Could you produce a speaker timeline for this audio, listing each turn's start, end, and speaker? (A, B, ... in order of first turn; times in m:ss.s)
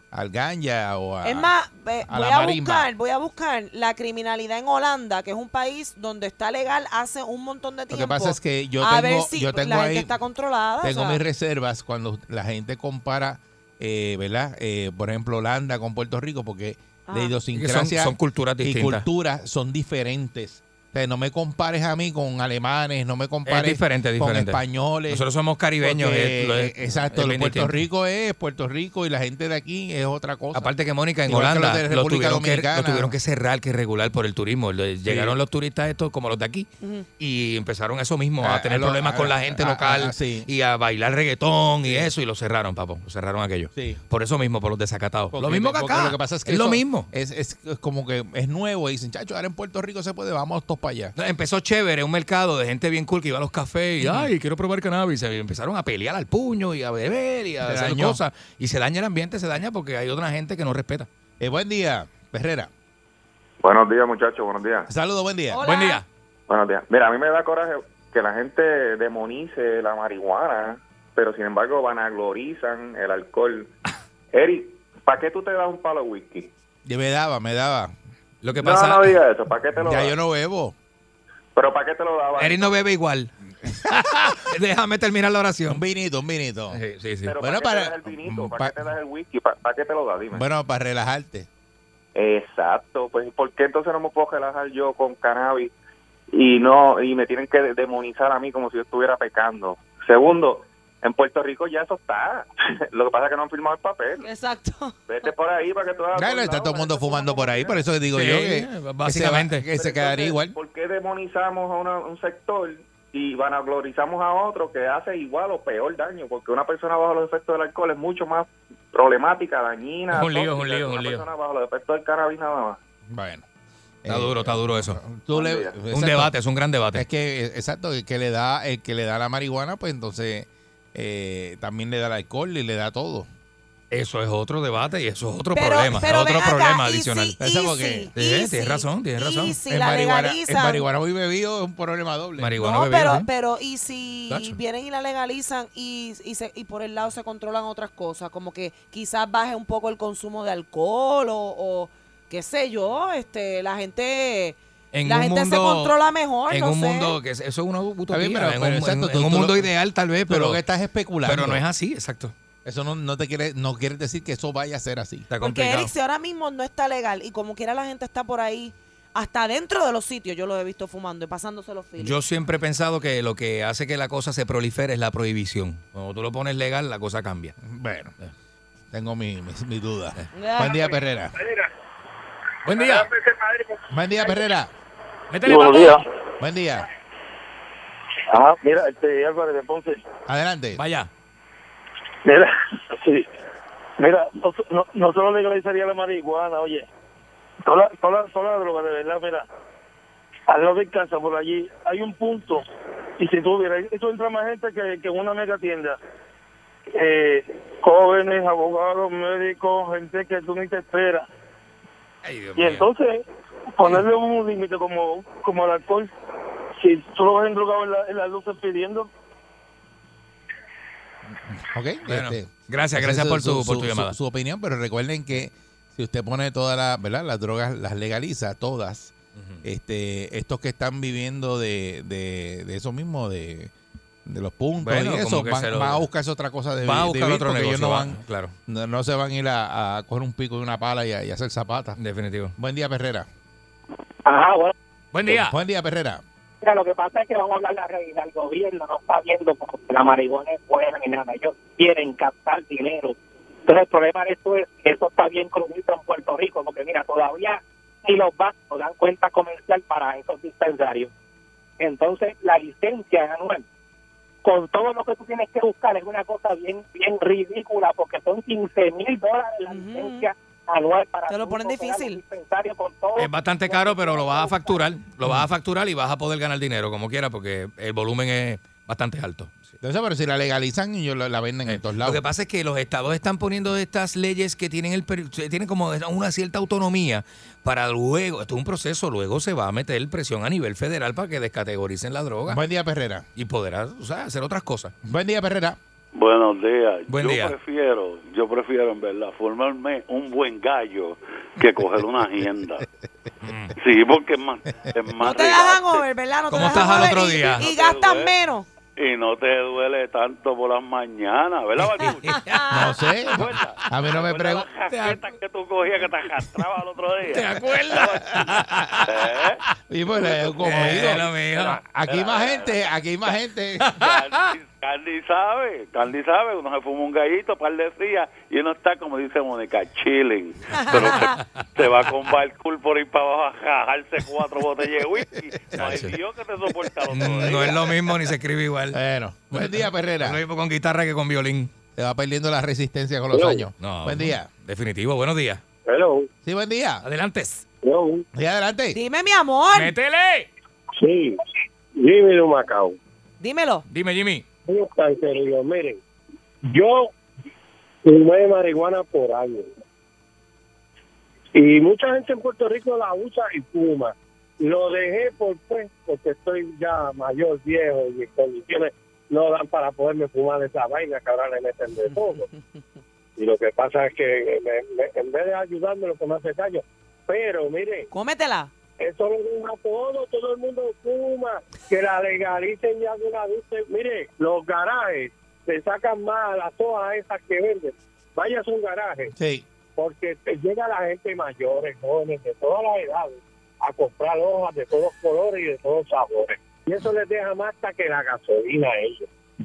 0:00.1-0:01.5 A
0:01.2-0:11.2 B
0:02.1-0:02.9 A
0:07.9-0:10.1 A
0:10.8-0:25.2 A
0:17.1-0:17.3 B
0:17.5-0:19.0 C
0:23.4-0:27.8 C
0:25.8-0:30.7 A
0:30.5-0:36.7 C
0:31.2-0:33.1 A
0:35.0-0:35.4 A
0:37.2-0:47.1 C
0:38.4-0:40.5 A
0:43.7-0:44.0 A
0:45.3-0:51.1 A
0:51.2-1:01.1 C
0:54.0-0:54.3 A
0:57.6-0:58.2 A
1:01.4-1:02.7 A
1:03.6-1:04.9 D
1:04.9-1:05.6 A
1:05.5-1:06.0 B
1:05.6-1:06.0 C
1:06.5-1:13.7 D
1:14.3-1:16.5 D
1:16.8-1:17.9 A
1:18.4-1:19.2 C
1:18.6-1:20.2 D
1:19.8-1:20.7 A
1:21.5-1:22.8 D
1:22.4-1:23.3 C
1:23.8-1:25.8 C
1:25.7-1:26.8 A
1:26.7-1:27.4 C
1:27.2-1:30.4 D
1:27.4-1:28.8 A
1:30.3-1:31.5 A
1:32.1-1:35.7 D
1:36.3-1:44.2 D
1:44.2-1:45.0 B
1:45.1-1:47.8 D
1:46.1-1:50.6 A
1:48.1-1:49.6 C
1:49.7-2:02.8 D
2:00.1-2:01.3 C
2:03.1-2:03.5 A
2:04.0-2:06.3 A
2:04.1-2:05.0 C
2:05.3-2:05.8 D
2:05.9-2:07.0 C
2:06.9-2:13.3 A
2:13.9-2:17.4 C
2:15.5-2:20.8 B
2:17.4-2:18.1 A
2:18.2-2:19.6 C
2:19.7-2:22.5 A
2:22.4-2:23.3 C
2:22.6-2:37.2 B
2:24.3-2:24.6 C
2:34.9-2:36.0 C
2:36.5-2:40.6 C
2:38.1-2:39.7 A
2:40.3-2:41.6 A
2:41.2-2:42.3 C
2:42.6-2:45.3 A
2:45.3-2:45.9 C
2:45.4-2:52.1 B
2:52.0-2:57.5 C
2:57.6-2:58.1 A
2:58.9-3:01.4 A
3:00.3-3:00.8 B
3:02.6-3:03.1 C
3:02.8-3:03.7 E
3:03.9-3:04.7 A
3:05.3-3:06.0 C
3:05.4-3:06.0 E
3:06.4-3:06.9 A
3:08.3-3:10.0 E
3:10.3-3:10.8 A
3:10.8-3:11.1 C
3:12.2-3:13.3 E
3:14.0-3:16.9 E
3:17.6-3:19.5 E
3:20.5-3:22.6 E
3:23.2-3:26.0 E
3:26.9-3:31.3 E
3:32.2-3:32.9 C
3:32.6-3:33.2 E
3:33.8-3:36.1 E
3:36.8-3:39.1 E
3:41.5-3:49.1 A
3:42.0-3:44.1 C
3:49.4-3:49.6 C
3:49.6-3:53.7 A
3:54.2-4:02.0 A
3:54.8-3:56.0 C
3:56.8-3:58.5 C
4:02.0-4:02.5 C
4:02.6-4:03.3 A
4:04.2-4:04.7 F
4:05.1-4:05.6 C
4:05.2-4:06.2 A
4:06.6-4:21.1 F
4:21.8-4:23.6 F
4:24.4-4:34.8 F
4:29.7-4:30.3 B
4:31.3-4:32.2 B
4:33.2-4:39.7 C
4:39.8-4:42.2 A
4:41.7-4:52.6 C
4:52.5-4:53.2 A
4:53.4-4:54.9 C
4:55.0-4:55.8 A
4:56.1-5:02.9 G
4:57.1-4:57.5 C
5:03.4-5:03.7 C
5:03.8-5:08.3 G
5:05.2-5:08.6 B
5:06.5-5:07.6 C
5:09.0-5:12.7 G
5:12.0-5:13.8 C
5:12.7-5:14.7 A
5:13.3-5:18.5 G
5:14.9-5:15.2 C
5:17.2-5:19.2 C
5:18.7-5:19.0 A
5:19.0-5:19.6 G
5:19.9-5:21.3 A
5:20.2-5:22.9 G
5:20.6-5:21.8 C
5:21.9-5:23.9 A
5:23.8-5:24.5 C
5:24.0-5:38.1 G
5:30.9-5:31.4 C
5:35.7-5:36.2 C
5:37.1-5:39.0 C
5:38.9-5:40.4 A
5:39.5-5:41.7 C
5:42.0-5:44.5 A
5:43.3-5:43.7 H
5:43.8-5:45.6 C
5:45.8-5:46.3 H
5:46.4-5:47.0 A
5:47.0-5:47.6 C
5:47.8-5:48.2 H
5:48.3-5:49.0 A
5:48.9-5:49.9 B
5:49.7-5:50.5 C
5:51.0-5:51.4 H
5:51.9-5:53.0 H
5:53.4-5:53.8 B
5:53.9-5:54.4 C
5:54.6-5:56.0 H
5:56.7-5:57.1 H
5:58.0-5:59.7 H
6:01.5-6:12.5 H
6:13.4-6:18.1 H
6:18.1-6:18.7 B
6:19.0-6:29.3 H
6:29.4-6:29.6 A
6:30.0-6:39.3 H